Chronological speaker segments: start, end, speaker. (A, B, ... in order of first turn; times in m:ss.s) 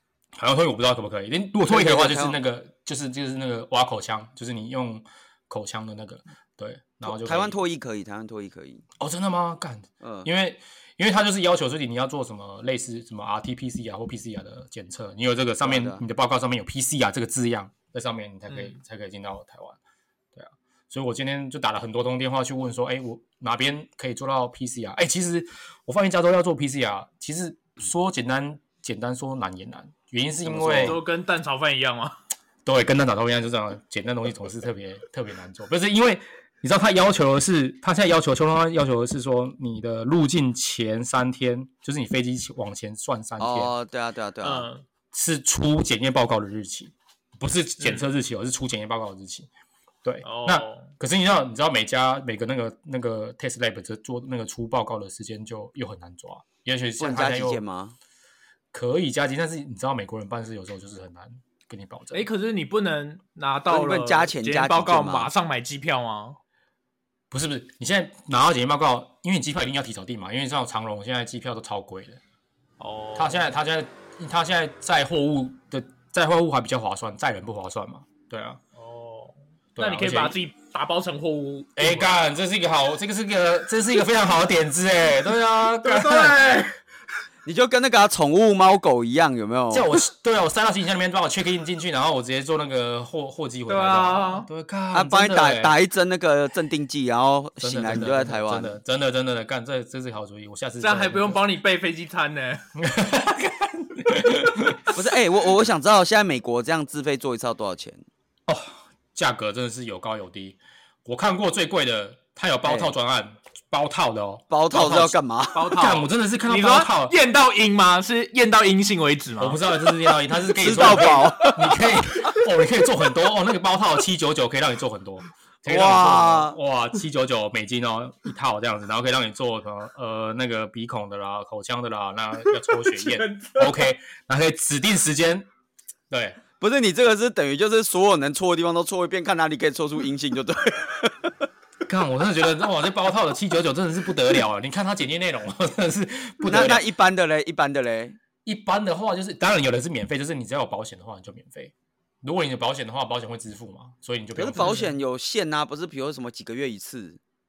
0:00.4-0:07.6 A
0:01.6-0:02.4 B
0:07.0-0:08.8 B
0:09.0-0:19.8 A
0:10.0-0:10.3 B
0:15.6-0:16.0 B
0:18.5-0:18.7 C
0:20.3-0:31.0 A
0:30.4-0:31.0 B
0:30.7-0:32.2 C
0:32.6-0:43.7 A
0:43.4-0:44.7 B
0:44.4-0:44.8 C
0:45.1-0:49.5 A
0:47.8-0:48.0 C
0:50.0-0:57.6 A
0:50.2-0:50.9 C
0:57.0-0:58.0 B
0:58.7-1:02.3 A
1:02.1-1:06.4 C
1:03.7-1:05.3 B
1:07.3-1:12.2 A
1:12.8-1:13.5 C
1:13.2-1:18.6 A
1:18.7-1:22.1 C
1:19.8-1:20.4 A
1:21.8-1:26.4 A
1:25.8-1:26.8 C
1:27.4-1:29.9 B
1:29.7-1:35.8 A
1:33.7-1:34.5 C
1:34.9-1:38.8 B
1:37.6-1:41.4 A
1:40.8-1:42.7 C
1:42.8-1:45.0 A
1:44.9-1:48.0 B
1:48.5-1:55.2 A
1:52.6-1:52.9 B
1:54.5-1:55.8 B
1:55.5-1:59.8 C
1:55.7-1:57.2 A
1:59.4-2:15.5 A
2:00.6-2:01.7 B
2:05.6-2:06.6 B
2:12.7-2:13.9 C
2:16.1-2:16.4 A
2:16.6-2:21.3 B
2:21.8-2:26.8 A
2:26.4-2:28.2 B
2:28.4-2:34.8 A
2:34.4-2:37.2 B
2:34.6-2:34.9 C